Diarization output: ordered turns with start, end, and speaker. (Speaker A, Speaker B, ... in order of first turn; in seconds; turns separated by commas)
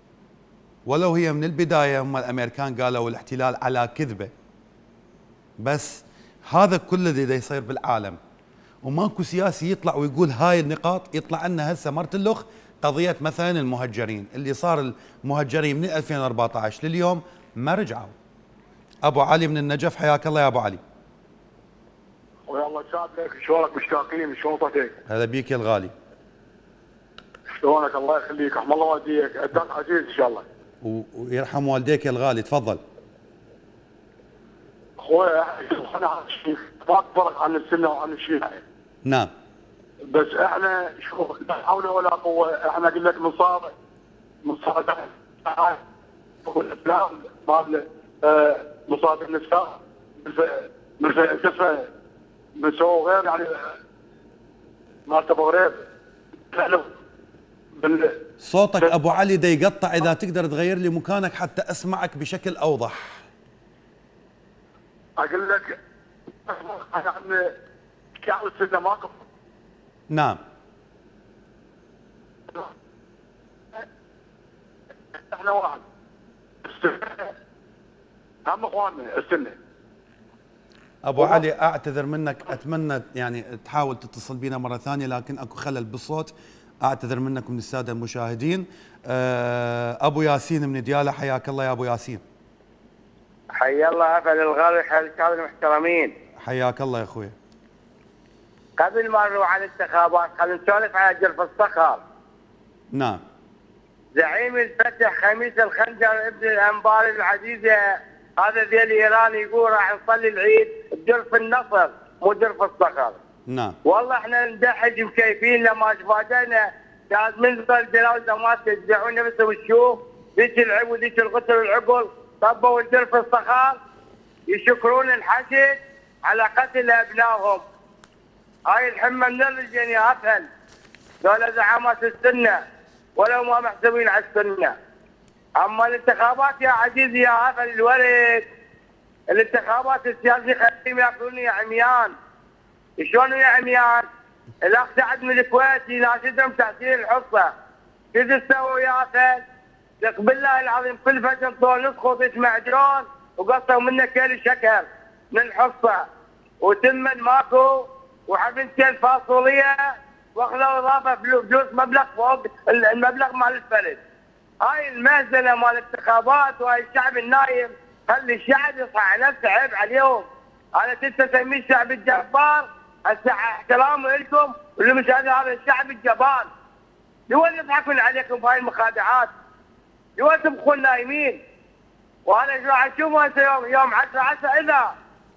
Speaker A: 0.9-4.3, Speaker A: 5.6-8.2, Speaker A: 8.8-18.1, Speaker A: 19.1-20.8, Speaker B: 22.5-24.9, Speaker A: 25.1-25.9, Speaker B: 27.6-30.4, Speaker A: 30.8-32.8, Speaker B: 35.0-38.6, Speaker A: 39.0-39.3, Speaker B: 40.1-43.7, Speaker B: 44.4-45.8, Speaker B: 46.5-51.9, Speaker B: 52.6-53.6, Speaker B: 55.1-55.8, Speaker B: 56.5-56.9, Speaker B: 57.8-58.1, Speaker A: 58.4-63.2, Speaker B: 65.2-65.8, Speaker B: 66.5-67.5, Speaker B: 68.2-69.2, Speaker A: 70.1-70.4, Speaker B: 75.2-75.8, Speaker B: 76.6-77.3, Speaker B: 78.5-79.5, Speaker A: 81.0-86.3, Speaker A: 86.8-92.2, Speaker C: 93.5-96.1, Speaker A: 96.4-97.3, Speaker C: 98.8-102.0, Speaker A: 102.9-103.2, Speaker C: 104.2-113.2, Speaker A: 113.5-113.8, Speaker C: 113.9-123.8, Speaker C: 124.5-127.6, Speaker C: 128.7-130.5, Speaker C: 131.2-132.6, Speaker C: 133.2-134.7, Speaker C: 135.6-138.4, Speaker C: 139.3-142.1, Speaker C: 143.0-144.1, Speaker C: 144.6-147.5, Speaker C: 148.1-149.4, Speaker C: 150.0-156.0, Speaker C: 156.6-157.7, Speaker C: 158.3-159.8, Speaker C: 160.4-164.0, Speaker C: 164.6-176.5, Speaker C: 177.3-179.3, Speaker C: 180.2-181.4, Speaker C: 182.3-184.8